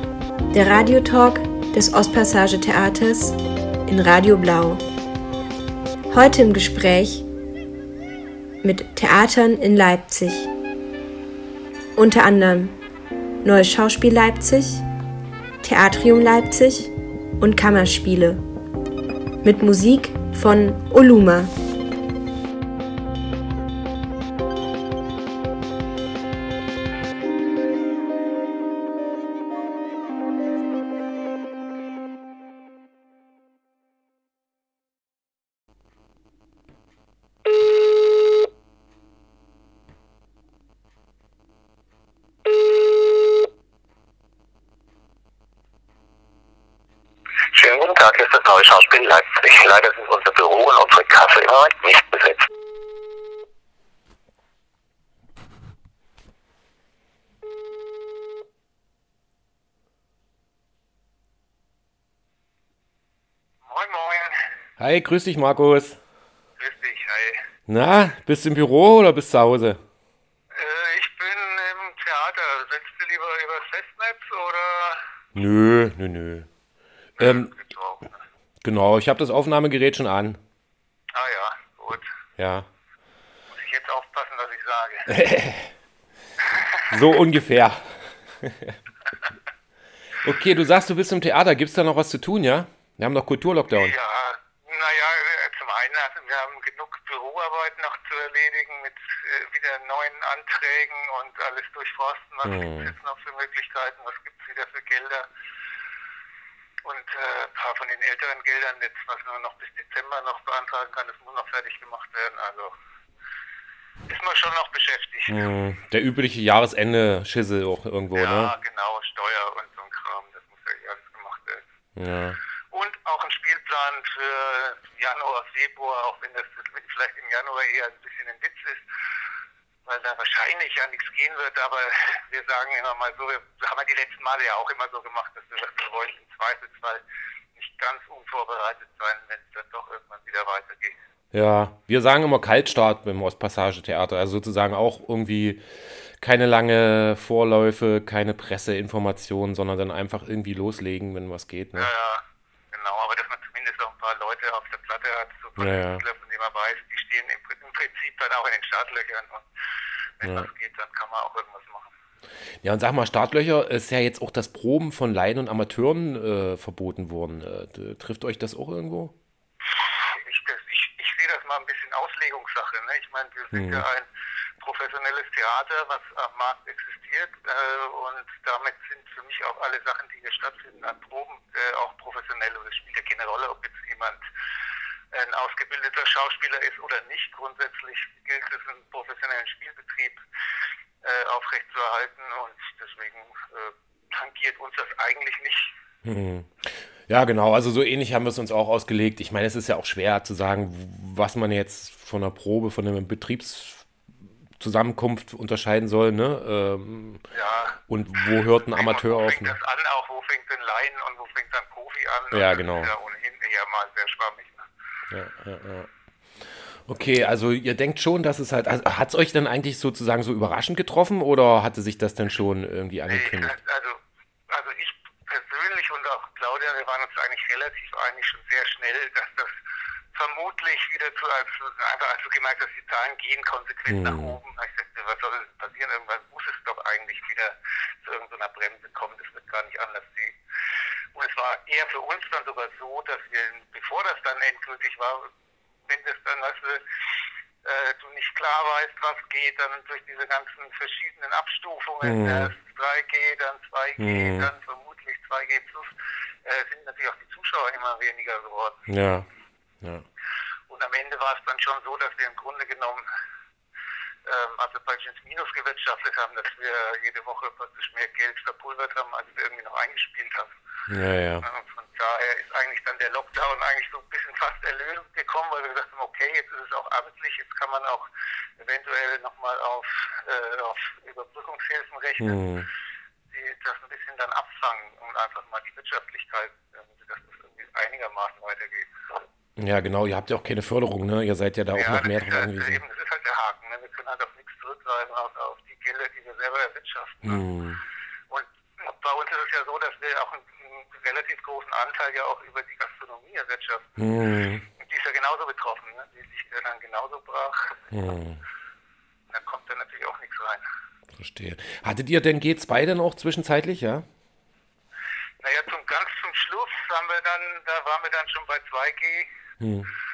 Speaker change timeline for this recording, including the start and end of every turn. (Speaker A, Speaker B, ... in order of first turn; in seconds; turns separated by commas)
Speaker A: 0.5-4.8, Speaker A: 6.1-7.2, Speaker A: 8.6-10.5, Speaker A: 11.9-12.8, Speaker A: 13.4-14.8, Speaker A: 15.6-18.4, Speaker A: 19.4-21.5, Speaker B: 47.5-52.4, Speaker B: 63.6-64.4, Speaker C: 64.8-66.0, Speaker B: 66.6-67.4, Speaker C: 67.7-69.8, Speaker B: 70.5-75.0, Speaker C: 75.3-76.5, Speaker B: 77.2-78.2, Speaker C: 77.2-77.5, Speaker C: 78.6-80.4, Speaker B: 81.1-82.1, Speaker C: 82.4-82.7, Speaker B: 83.5-85.1, Speaker C: 85.1-85.7, Speaker B: 86.4-86.9, Speaker C: 86.9-88.8, Speaker C: 90.2-93.9, Speaker B: 93.8-105.2, Speaker C: 102.4-102.9, Speaker B: 106.8-112.7, Speaker B: 114.1-115.3, Speaker C: 115.3-118.5, Speaker B: 118.1-121.6, Speaker C: 122.0-122.4, Speaker B: 122.7-128.8, Speaker B: 129.8-137.0, Speaker B: 137.6-141.0, Speaker C: 141.3-151.9, Speaker B: 151.8-159.4, Speaker C: 155.6-156.0, Speaker B: 160.2-161.9, Speaker C: 160.2-160.5, Speaker C: 162.6-169.1, Speaker B: 169.8-174.1, Speaker C: 173.5-173.8, Speaker B: 174.6-184.2, Speaker B: 185.1-190.2, Speaker B: 191.0-195.7, Speaker C: 196.0-203.9, Speaker C: 204.6-207.2, Speaker B: 207.3-207.8, Speaker C: 207.9-209.6, Speaker B: 208.7-214.7, Speaker C: 212.3-212.9, Speaker C: 215.1-223.6, Speaker B: 223.1-224.0, Speaker B: 224.5-229.6, Speaker B: 230.1-240.3, Speaker C: 233.9-234.4, Speaker B: 241.1-245.3, Speaker B: 245.9-246.8, Speaker B: 247.6-258.9, Speaker C: 252.0-252.5, Speaker C: 254.0-254.5, Speaker C: 258.9-259.3, Speaker B: 260.7-263.0, Speaker B: 264.2-270.5, Speaker C: 270.9-271.4, Speaker B: 271.4-278.1, Speaker B: 278.6-282.4, Speaker C: 282.2-282.7, Speaker B: 283.3-289.2, Speaker C: 289.6-292.8, Speaker B: 291.7-297.4, Speaker C: 297.2-297.8, Speaker B: 298.3-304.0, Speaker C: 304.0-304.6, Speaker B: 304.8-307.8, Speaker C: 307.9-308.4, Speaker B: 309.3-310.6, Speaker C: 311.1-314.1, Speaker B: 315.4-319.3, Speaker C: 319.6-319.9